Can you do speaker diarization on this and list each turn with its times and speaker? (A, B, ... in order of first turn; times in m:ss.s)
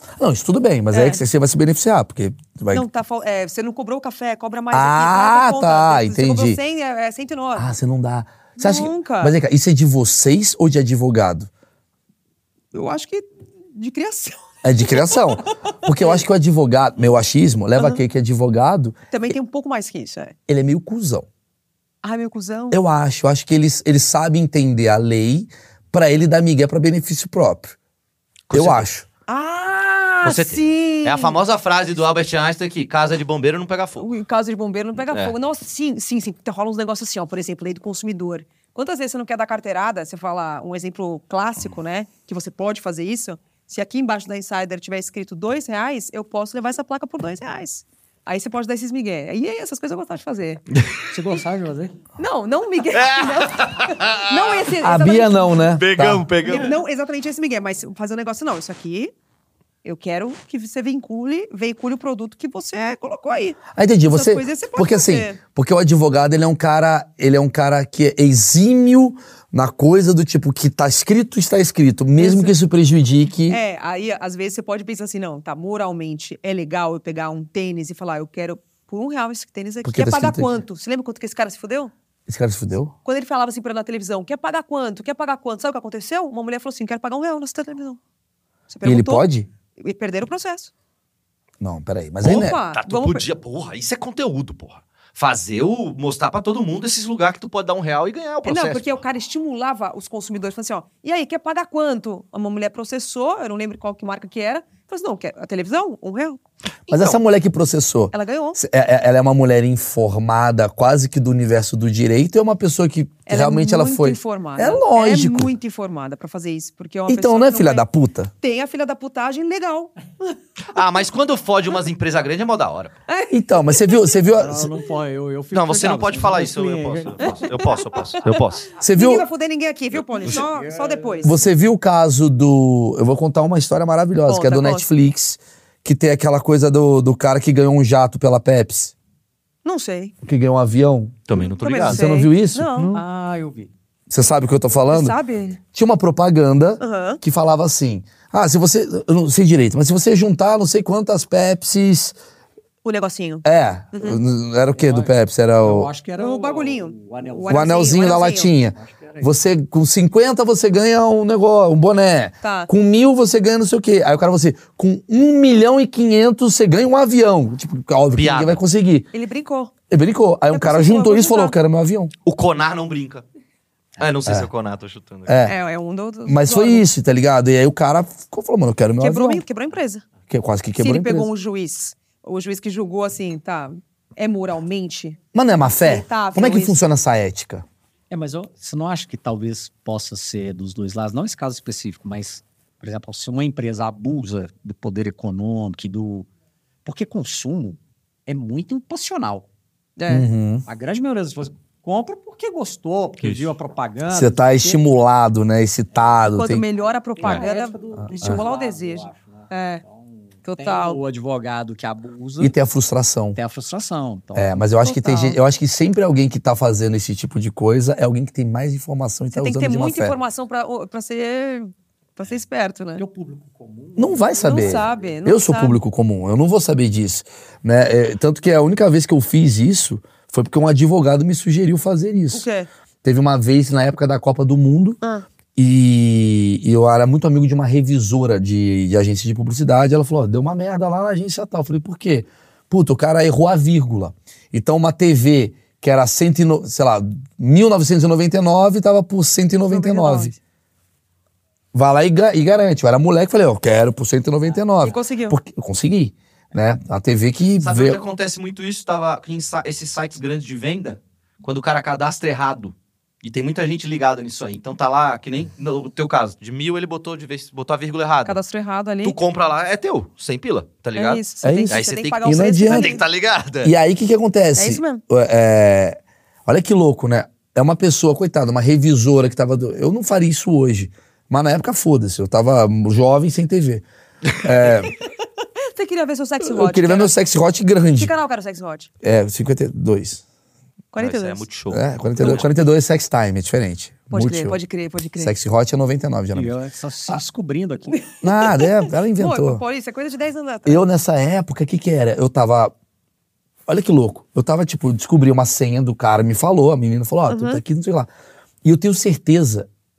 0:00.2-0:02.8 A
0:00.9-0:01.2 B
0:02.7-0:07.7 B
0:04.7-0:06.6 A
0:07.6-0:11.5 A
0:08.6-0:09.3 B
0:12.7-0:16.2 B
0:14.6-0:19.0 A
0:19.1-0:20.3 B
0:20.5-0:21.3 A
0:22.0-0:22.8 B
0:22.7-0:27.7 A
0:28.5-0:28.8 C
0:28.5-0:29.0 A
0:29.3-0:31.4 B
0:30.2-0:34.1 C
0:34.0-0:50.6 B
0:35.0-0:35.3 C
0:50.8-0:51.0 C
0:51.1-0:52.0 D
0:52.2-0:55.8 B
0:52.9-0:54.6 C
0:54.8-0:56.3 A
0:55.8-0:56.8 C
0:56.4-0:56.7 D
0:56.5-0:59.1 B
0:59.8-1:05.4 B
1:03.7-1:13.6 A
1:12.2-1:12.6 B
1:13.5-1:21.9 B
1:19.8-1:20.6 A
1:22.3-1:22.9 A
1:23.0-1:28.0 B
1:28.7-1:29.2 B
1:28.8-1:29.5 A
1:29.8-1:30.7 B
1:31.6-1:32.6 A
1:32.2-1:33.2 B
1:32.2-1:39.0 C
1:38.4-1:46.4 B
1:46.9-1:47.2 C
1:46.9-1:55.5 A
1:48.1-1:48.6 B
1:53.3-1:57.8 B
1:57.1-1:58.3 A
1:58.4-2:00.0 B
2:00.7-2:03.0 C
2:03.1-2:04.2 B
2:03.3-2:04.7 A
2:04.3-2:07.8 D
2:05.5-2:08.7 C
2:07.2-2:07.5 B
2:08.8-2:09.2 A
2:08.8-2:11.4 B
2:10.2-2:11.4 D
2:11.2-2:18.9 A
2:14.3-2:14.9 B
2:19.6-2:20.1 B
2:20.2-2:21.2 A
2:21.3-2:22.0 C
2:21.3-2:23.0 B
2:21.8-2:23.0 A
2:22.9-2:23.7 D
2:24.1-2:25.2 A
2:24.8-2:25.6 B
2:25.7-2:32.2 A
2:26.8-2:27.2 B
2:32.8-2:34.2 B
2:33.4-2:35.9 A
2:34.7-2:39.3 D
2:36.2-2:38.5 B
2:37.5-2:49.1 A
2:42.4-2:42.7 B
2:48.1-2:48.6 C
2:49.1-2:49.7 B
2:49.9-2:52.1 A
2:50.5-2:51.6 B
2:52.2-2:53.2 C
2:54.0-2:55.4 C
2:55.2-2:55.5 A
2:55.4-2:56.8 B
2:56.2-2:59.4 A
2:59.0-3:00.0 B
3:00.3-3:01.3 A
3:00.8-3:05.2 B
3:05.3-3:07.6 A
3:05.8-3:06.8 B
3:08.1-3:16.3 D
3:16.8-3:19.5 D
3:20.0-3:20.3 B
3:20.1-3:20.6 A
3:20.6-3:24.8 D
3:23.2-3:23.5 C
3:24.1-3:26.6 A
3:26.0-3:32.5 D
3:26.2-3:29.8 B
3:28.0-3:28.4 A
3:30.4-3:31.0 B
3:32.4-3:33.4 A
3:33.3-3:34.6 D
3:34.3-3:40.1 A
3:34.8-3:35.4 B
3:39.3-3:43.0 B
3:43.0-3:45.2 D
3:44.0-3:52.4 A
3:44.4-3:45.8 B
3:52.3-3:52.7 B
3:53.0-3:55.0 A
3:55.6-4:10.3 A
4:09.7-4:10.4 B
4:11.7-4:18.0 A
4:14.8-4:15.4 B
4:17.6-4:28.4 C
4:28.2-4:29.2 B
4:29.0-4:33.7 C
4:31.0-4:33.0 B
4:31.4-4:33.0 A
4:33.6-4:43.8 A
4:34.6-4:35.0 B
4:44.4-4:44.9 A
4:45.6-4:47.2 B
4:46.4-4:48.1 A
4:48.0-4:48.9 B
4:49.0-4:50.2 A
4:50.9-4:51.4 B
4:51.0-4:52.4 C
4:51.7-4:54.6 A
4:52.2-4:52.4 B
4:54.1-4:55.3 B
4:55.2-4:56.6 A
4:56.3-4:58.0 D
4:57.9-5:00.8 B
4:58.2-4:59.6 A
5:00.6-5:02.7 A
5:03.7-5:08.1 A
5:07.3-5:07.6 B
5:08.6-5:09.7 A